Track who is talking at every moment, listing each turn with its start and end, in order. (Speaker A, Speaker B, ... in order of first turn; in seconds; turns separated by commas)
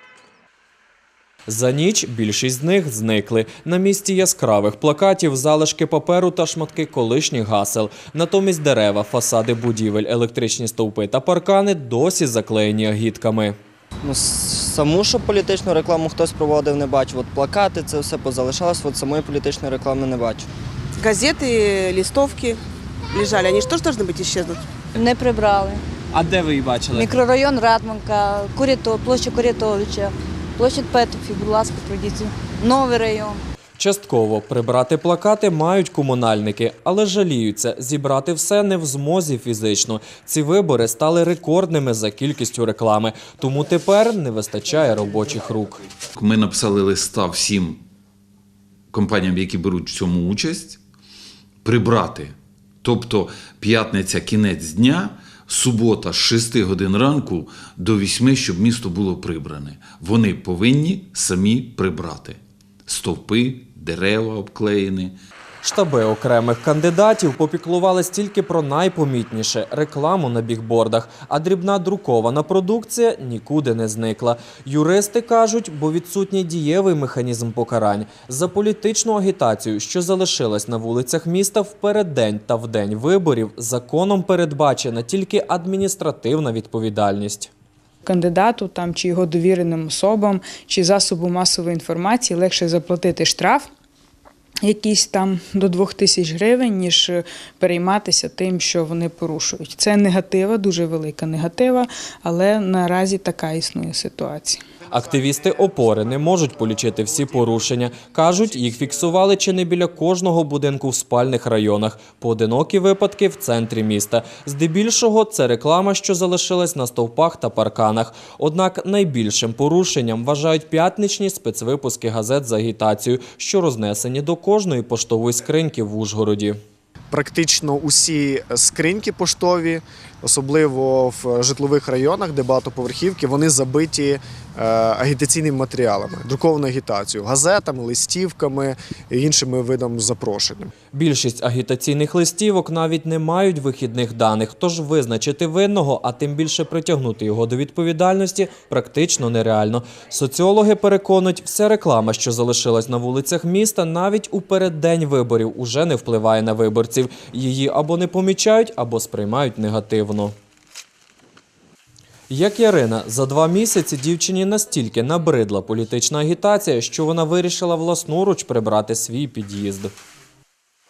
Speaker A: 1.5-13.6, Speaker B: 14.0-20.5, Speaker C: 21.0-22.6, Speaker C: 23.1-24.7, Speaker D: 24.9-25.8, Speaker A: 26.1-27.2, Speaker D: 26.9-33.4, Speaker A: 33.8-45.8, Speaker E: 46.2-47.8, Speaker E: 48.9-50.8, Speaker E: 51.6-65.2, Speaker A: 65.6-87.5, Speaker F: 88.0-93.7, Speaker F: 94.6-104.6, Speaker A: 104.9-126.6, Speaker G: 127.1-140.7, Speaker A: 140.9-160.3, Speaker A: 162.3-169.9